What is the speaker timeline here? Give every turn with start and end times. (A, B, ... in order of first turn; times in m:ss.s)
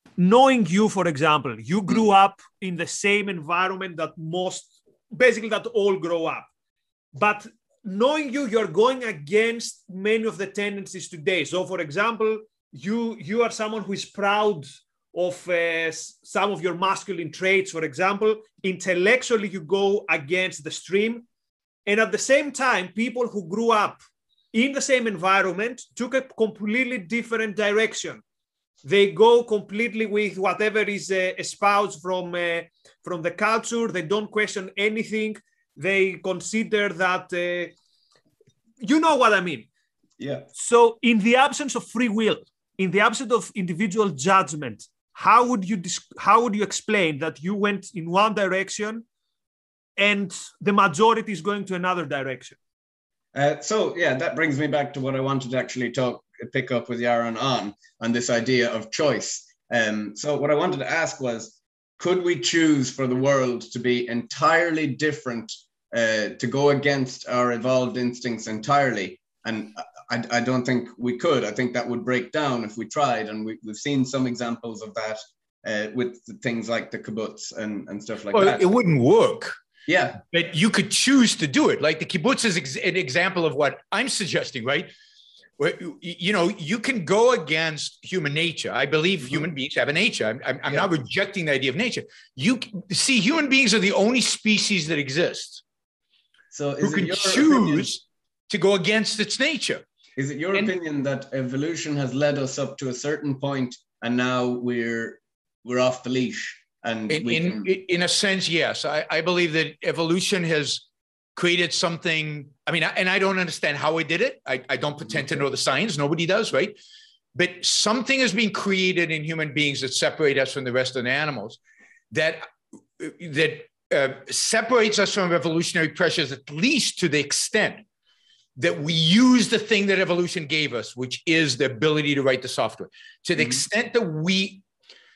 0:00.2-0:06.5 A
0:07.1-0:21.2 A
0:21.8-0:24.0 A
0:24.5-0:28.2 A
0:28.8-0:37.7 A
0:38.8-0:39.7 A
0:40.2-0:40.5 B
0:40.6-0:49.0 A
0:50.0-0:52.6 A
0:53.3-1:18.7 B
1:18.3-1:19.5 C
1:19.9-1:20.2 B
1:20.2-1:24.9 C
1:25.6-1:35.6 C
1:36.5-1:37.9 B
1:36.8-1:39.8 C
1:40.2-1:47.7 B
1:47.1-1:56.8 C
1:57.3-2:01.6 C
2:02.1-2:07.8 C
2:08.6-2:14.6 C
2:13.4-2:13.6 B